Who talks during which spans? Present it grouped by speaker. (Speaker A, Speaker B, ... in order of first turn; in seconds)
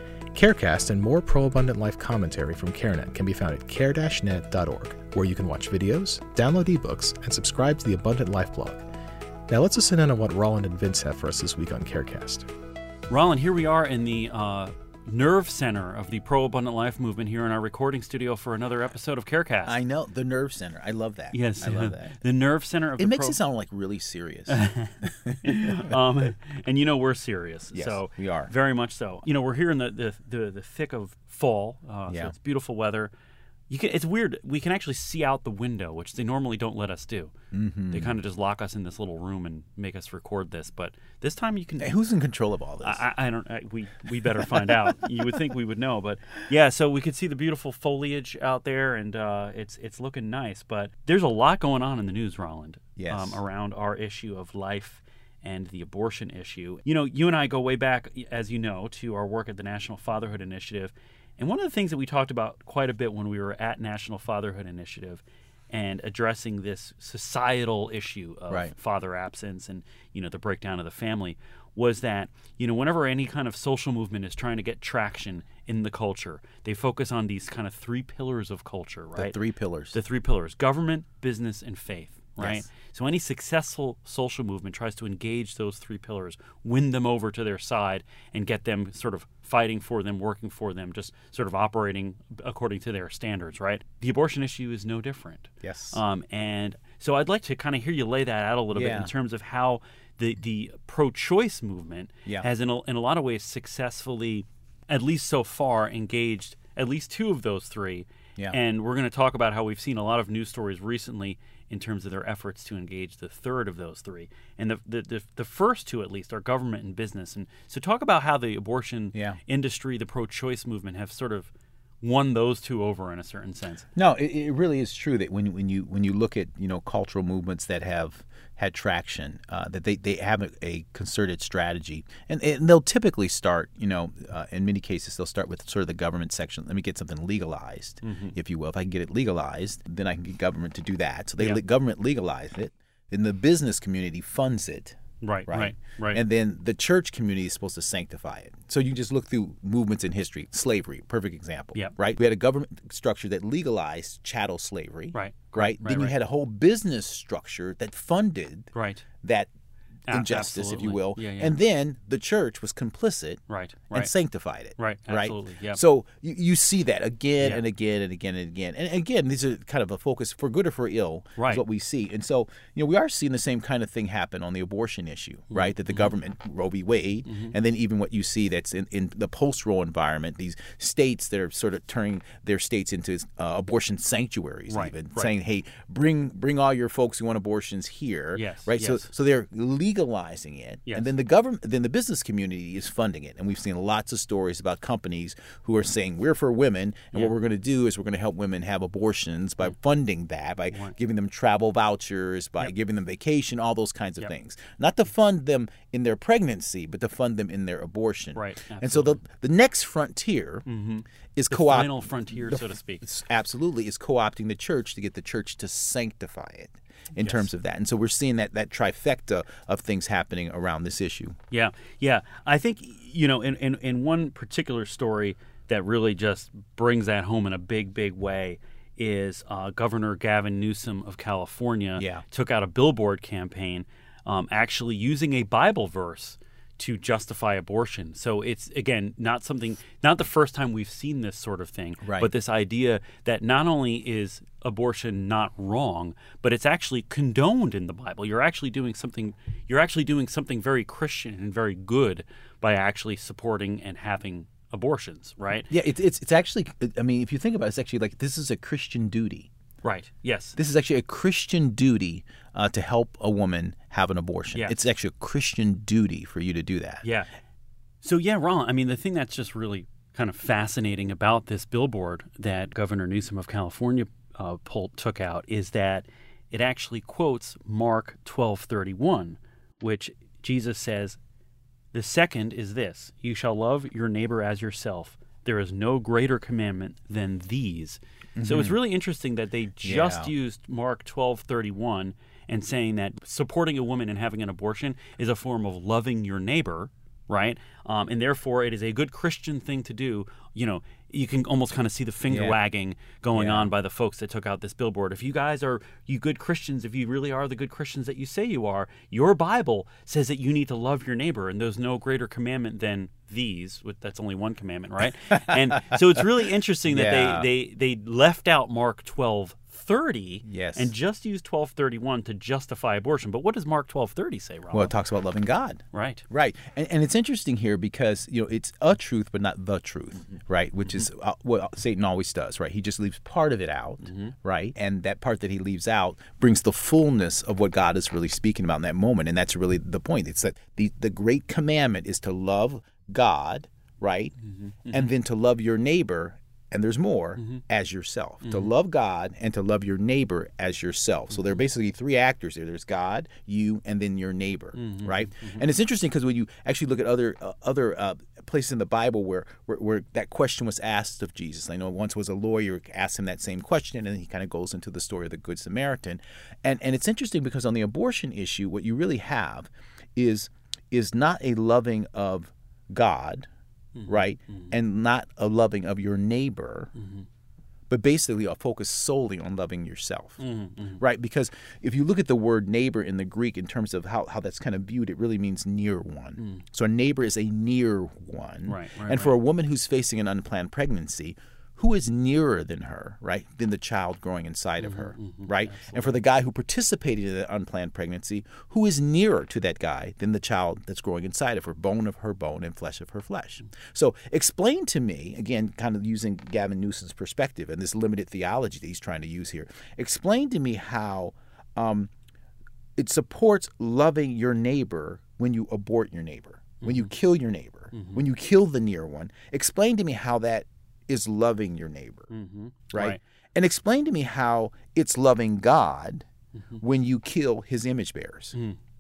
Speaker A: 0.3-8.8, 9.5-12.5
Speaker B: 13.1-19.7, 21.3-23.4, 24.5-33.1, 33.7-37.3, 37.9-42.0, 42.8-79.4, 79.9-121.5, 122.0-123.9, 138.0-138.3, 145.2-146.2, 155.1-156.1, 158.7-159.1, 160.1-161.5, 163.5-164.1, 164.8-165.8, 171.4-171.6, 175.5-176.1, 177.3-177.5, 184.7-185.3, 188.3-189.1, 208.3-209.2, 210.7-213.1, 217.2-217.5, 221.5-255.7, 259.8-260.6, 267.0-267.3, 268.0-281.2, 281.9-324.9, 325.9-326.2, 334.0-334.3, 344.4-345.1, 348.4-348.7, 354.7-355.6, 373.9-374.7, 376.9-377.2, 380.4-381.0, 386.4-386.6, 388.6-389.4, 394.8-396.2, 416.8-417.1, 417.9-418.2, 422.3-423.2
Speaker C: 19.6-22.1, 23.0-25.9, 27.7-28.5, 32.1-32.3, 37.5-38.2, 41.8-43.0, 44.4-45.1, 53.0-53.4, 79.2-80.0, 82.4-82.7, 95.6-96.0, 98.7-99.1, 124.0-159.5, 160.1-210.7, 211.3-221.4, 232.0-232.2, 242.0-242.3, 255.7-259.5, 260.6-267.0, 288.4-288.8, 289.8-290.3, 302.3-302.6, 303.3-303.7, 315.3-316.2, 316.9-317.5, 320.4-320.9, 324.7-344.3, 344.9-373.5, 374.1-376.9, 377.9-380.4, 381.0-412.1, 413.0-422.3, 422.9-426.3, 426.8-428.5